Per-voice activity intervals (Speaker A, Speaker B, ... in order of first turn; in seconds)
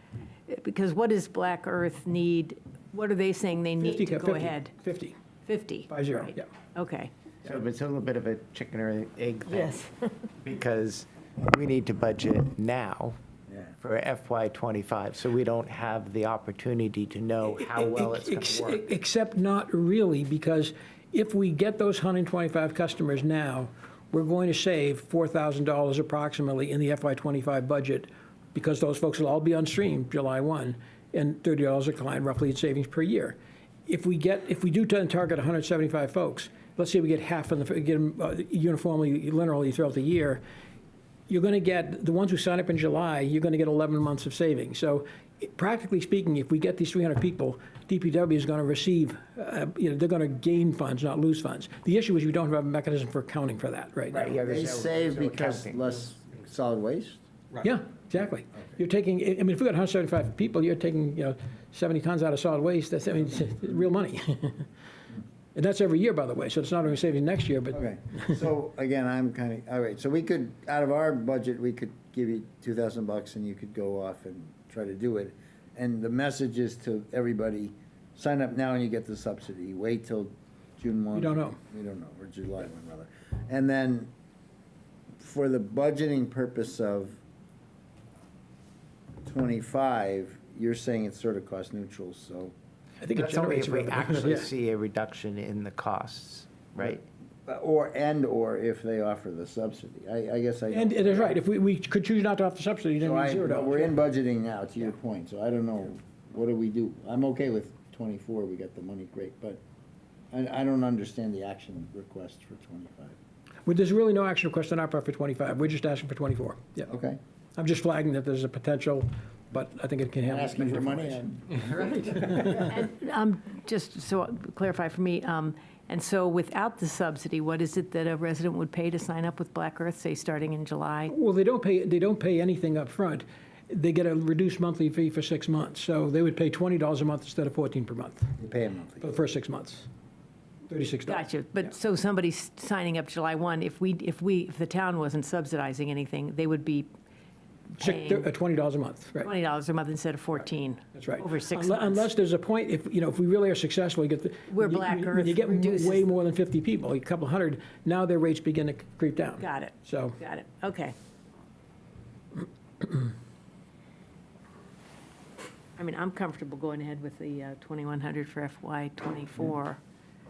Speaker A: 0.5-4.7, 5.5-7.1, 9.5-10.1, 122.7-131.1, 141.1-146.9, 147.8-148.3, 149.2-152.1, 154.5-156.1, 159.4-160.9, 165.8-169.8
Speaker B: 3.8-5.1, 5.9-6.5, 17.6-40.4, 41.3-54.2, 57.6-64.7, 65.5-67.8, 81.1-81.6, 93.0-94.5, 100.7-103.9, 113.7-116.9, 117.5-121.2, 121.8-122.4, 131.1-138.3, 139.0-139.9, 140.7-141.3, 147.8-149.3, 150.9-160.2
Speaker C: 7.4-9.9, 10.4-13.2, 13.8-18.9, 54.1-56.0, 93.1-97.0, 121.8-122.5
Speaker D: 13.5-13.7, 54.3-57.2, 67.7-84.1, 85.2-87.2, 89.2-92.5, 97.5-101.3, 103.0-109.6, 110.3-113.2, 116.9-117.2, 120.2-121.7, 138.4-139.1